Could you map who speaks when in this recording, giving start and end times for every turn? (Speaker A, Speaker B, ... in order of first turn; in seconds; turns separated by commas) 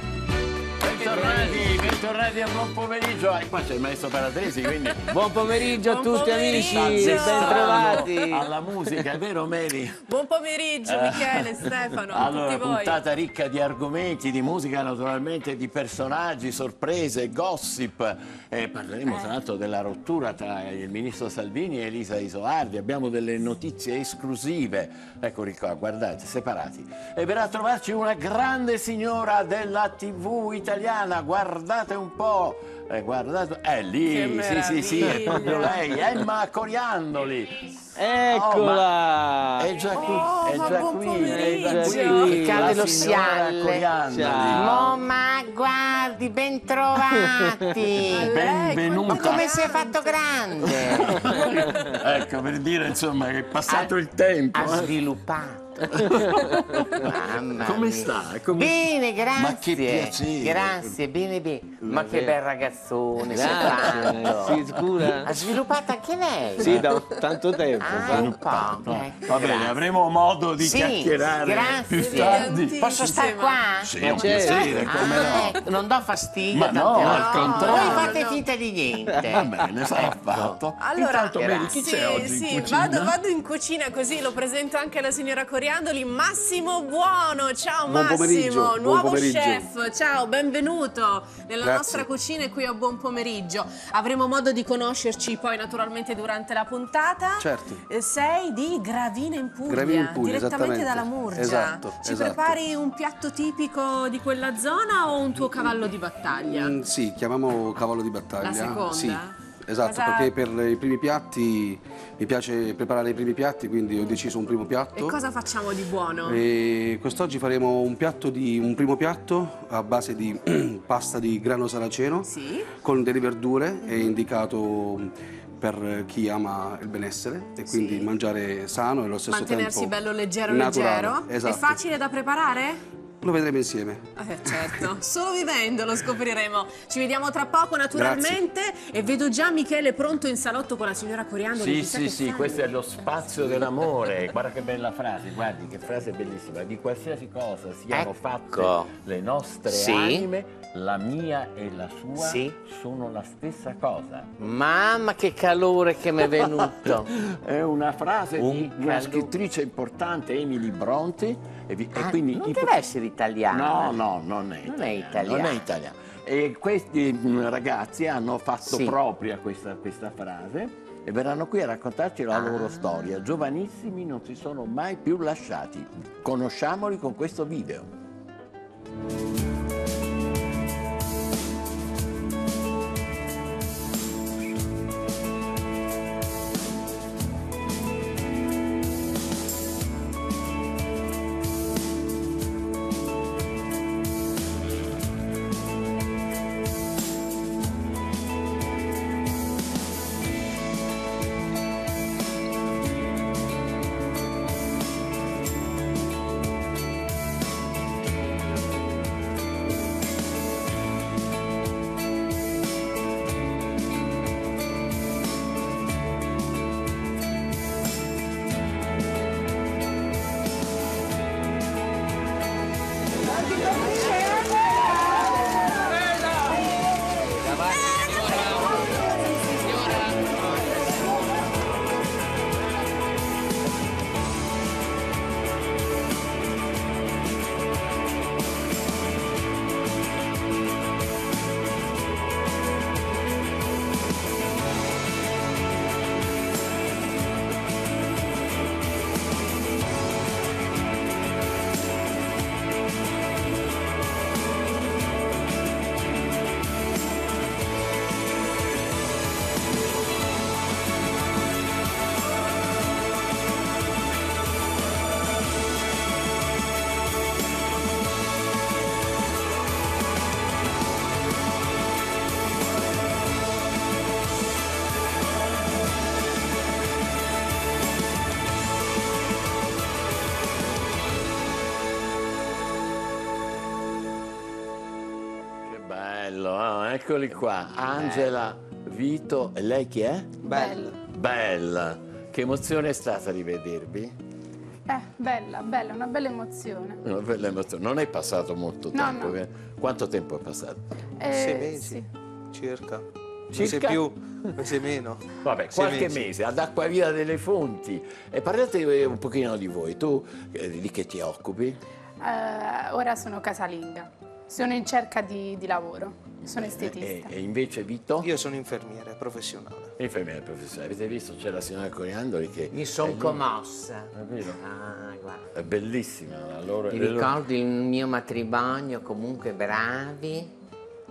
Speaker A: 0.8-5.5, Speaker B: 1.2-1.7, Speaker C: 5.1-8.3, Speaker B: 5.7-8.5, Speaker A: 6.4-10.1, Speaker B: 10.1-13.0, Speaker A: 10.8-38.9, Speaker B: 34.2-35.9, Speaker C: 38.0-39.7, Speaker A: 39.6-44.9, Speaker B: 39.9-42.4, Speaker C: 41.3-42.8, Speaker D: 42.3-43.9, Speaker C: 44.1-44.9, Speaker D: 44.4-48.5, Speaker C: 47.1-47.7, Speaker A: 48.1-49.8, Speaker B: 48.1-50.3, Speaker D: 49.1-51.3, Speaker A: 50.6-55.0, Speaker D: 53.7-53.9, Speaker D: 54.5-56.3, Speaker A: 55.9-61.0, Speaker D: 56.9-66.7, Speaker C: 61.9-62.3, Speaker C: 63.3-65.4, Speaker A: 63.4-65.6, Speaker A: 66.6-67.0, Speaker C: 66.6-68.3, Speaker D: 67.8-69.8, Speaker A: 67.8-73.2, Speaker D: 70.6-80.6, Speaker B: 72.0-75.6, Speaker A: 73.8-75.6, Speaker C: 74.0-74.6, Speaker A: 76.5-78.2, Speaker B: 77.0-78.5, Speaker A: 79.2-83.2, Speaker B: 80.8-106.8, Speaker D: 81.4-81.9, Speaker E: 87.9-89.7, Speaker E: 91.6-92.0, Speaker E: 97.4-97.8, Speaker E: 99.7-102.6, Speaker E: 106.5-115.2, Speaker B: 108.4-110.3, Speaker B: 114.9-116.4, Speaker E: 116.2-122.3, Speaker B: 122.3-122.7, Speaker E: 122.8-130.0, Speaker B: 127.7-128.1, Speaker B: 129.3-132.8, Speaker E: 130.5-131.8, Speaker E: 133.2-134.8, Speaker B: 134.2-142.8, Speaker E: 137.9-138.4, Speaker A: 141.5-154.3, Speaker D: 147.9-148.9, Speaker D: 149.7-150.3, Speaker D: 152.2-152.6, Speaker D: 154.4-157.1, Speaker A: 156.4-162.8, Speaker D: 158.4-159.3, Speaker D: 161.9-164.0, Speaker A: 163.5-177.9, Speaker D: 164.7-165.7, Speaker D: 168.7-169.0, Speaker D: 172.3-173.2, Speaker B: 223.6-224.4, Speaker A: 285.6-290.4, Speaker D: 288.0-288.3, Speaker F: 290.4-290.9, Speaker G: 290.5-291.0, Speaker A: 291.1-294.1, Speaker F: 294.9-297.0, Speaker A: 297.0-300.8, Speaker F: 298.9-299.4, Speaker F: 301.2-302.1, Speaker G: 301.3-306.3, Speaker A: 303.5-304.1, Speaker A: 305.4-311.8, Speaker F: 312.2-317.3, Speaker A: 316.4-318.3, Speaker G: 318.2-319.9, Speaker A: 320.0-323.4, Speaker D: 322.7-325.5, Speaker A: 324.1-324.6, Speaker A: 325.5-327.4, Speaker D: 326.9-330.5